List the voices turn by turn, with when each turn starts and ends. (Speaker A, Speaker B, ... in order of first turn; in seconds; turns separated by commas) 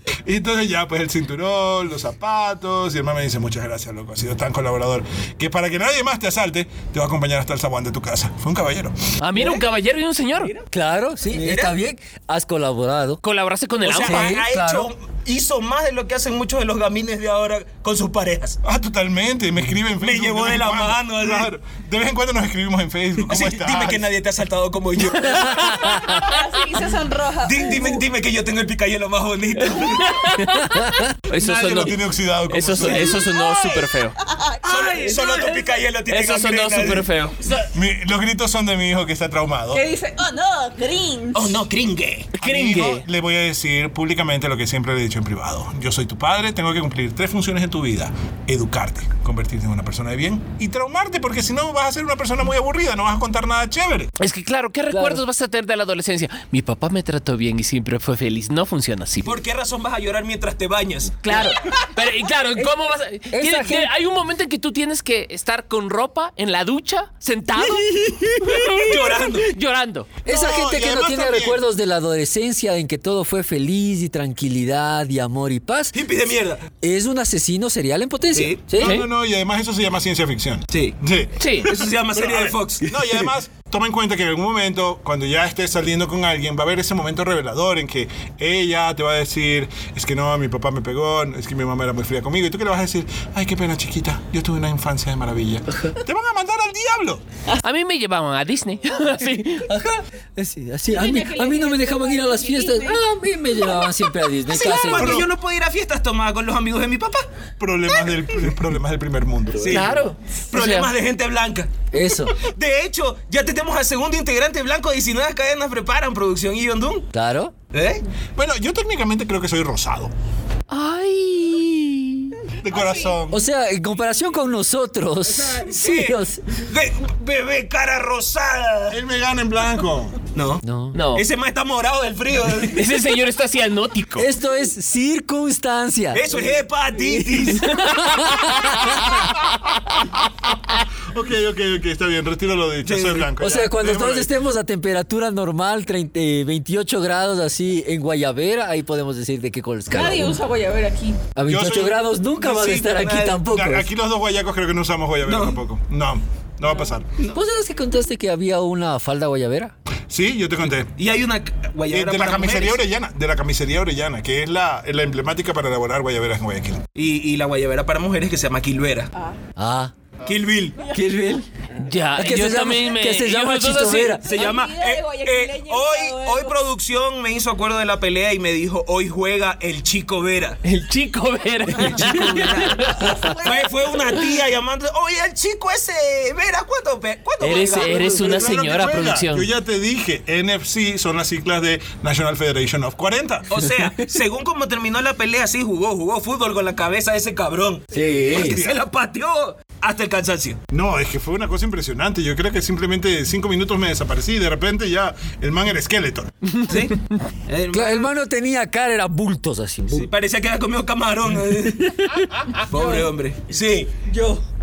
Speaker A: 0.2-9.0, Speaker B: 9.2-10.5, Speaker C: 9.4-9.6, Speaker D: 10.7-13.2, Speaker C: 11.3-11.8, Speaker B: 13.2-14.4, Speaker C: 13.8-18.6, Speaker D: 14.0-14.9, Speaker A: 18.6-24.0, Speaker C: 20.0-21.5, Speaker C: 23.3-26.0, Speaker B: 25.6-26.2, Speaker E: 25.8-28.0, Speaker C: 27.4-30.2, Speaker B: 29.8-34.2, Speaker D: 30.6-31.1, Speaker A: 31.3-33.3, Speaker C: 32.8-33.5, Speaker E: 33.5-35.6, Speaker C: 34.6-37.6, Speaker B: 35.1-35.4, Speaker B: 36.1-37.4, Speaker A: 37.7-39.8, Speaker E: 39.7-41.6, Speaker C: 41.3-42.3, Speaker B: 42.4-43.0, Speaker A: 42.4-54.1, Speaker B: 54.2-59.4, Speaker D: 54.9-55.2, Speaker C: 59.2-61.4, Speaker B: 61.2-70.2, Speaker D: 61.2-61.6, Speaker D: 63.3-63.9, Speaker D: 67.6-68.8, Speaker C: 68.7-69.5, Speaker A: 70.2-71.6, Speaker D: 70.2-76.0, Speaker C: 75.9-76.6, Speaker D: 76.8-79.0, Speaker C: 78.3-78.7, Speaker A: 78.7-97.2, Speaker B: 78.8-79.1, Speaker C: 80.7-81.0, Speaker B: 81.4-81.7, Speaker C: 81.6-82.9, Speaker D: 83.0-83.3, Speaker B: 97.6-99.7, Speaker D: 99.6-105.3, Speaker E: 100.9-103.0, Speaker C: 104.5-107.2, Speaker A: 104.9-105.3, Speaker A: 107.6-110.0, Speaker C: 109.6-117.1, Speaker B: 109.6-110.9, Speaker D: 111.9-112.4, Speaker D: 117.1-117.5, Speaker C: 117.7-118.0, Speaker A: 118.4-120.1, Speaker B: 120.7-122.4, Speaker A: 122.6-123.4, Speaker E: 122.7-123.2, Speaker D: 123.3-126.4, Speaker C: 125.5-129.0, Speaker A: 128.9-130.2, Speaker C: 130.3-130.6, Speaker D: 130.6-131.0, Speaker B: 130.9-131.2, Speaker C: 131.1-132.9, Speaker B: 132.7-134.3, Speaker D: 134.2-136.3, Speaker C: 136.1-137.7, Speaker D: 136.9-139.3, Speaker B: 137.5-138.9, Speaker A: 140.5-144.3, Speaker C: 142.8-143.3, Speaker D: 143.4-150.4, Speaker E: 149.9-151.3, Speaker D: 151.4-153.9, Speaker A: 151.5-152.0, Speaker C: 152.4-153.4, Speaker A: 153.4-157.1, Speaker C: 155.2-155.6, Speaker D: 157.3-159.7, Speaker A: 160.1-160.9, Speaker C: 161.0-162.8, Speaker A: 161.9-166.8, Speaker C: 167.0-169.1, Speaker D: 169.6-169.9, Speaker C: 170.2-170.8, Speaker D: 170.9-174.3, Speaker B: 171.8-174.2, Speaker E: 174.2-176.6, Speaker C: 174.2-180.6, Speaker B: 180.6-183.2, Speaker C: 181.8-188.4, Speaker B: 187.4-189.5, Speaker A: 187.9-193.6, Speaker C: 193.5-200.6, Speaker D: 197.9-198.6, Speaker A: 198.3-198.8, Speaker A: 200.7-206.3, Speaker C: 206.7-208.1, Speaker D: 207.7-210.1, Speaker C: 209.9-212.0, Speaker D: 211.7-212.3, Speaker C: 212.6-213.9, Speaker E: 212.7-213.1, Speaker E: 214.1-214.4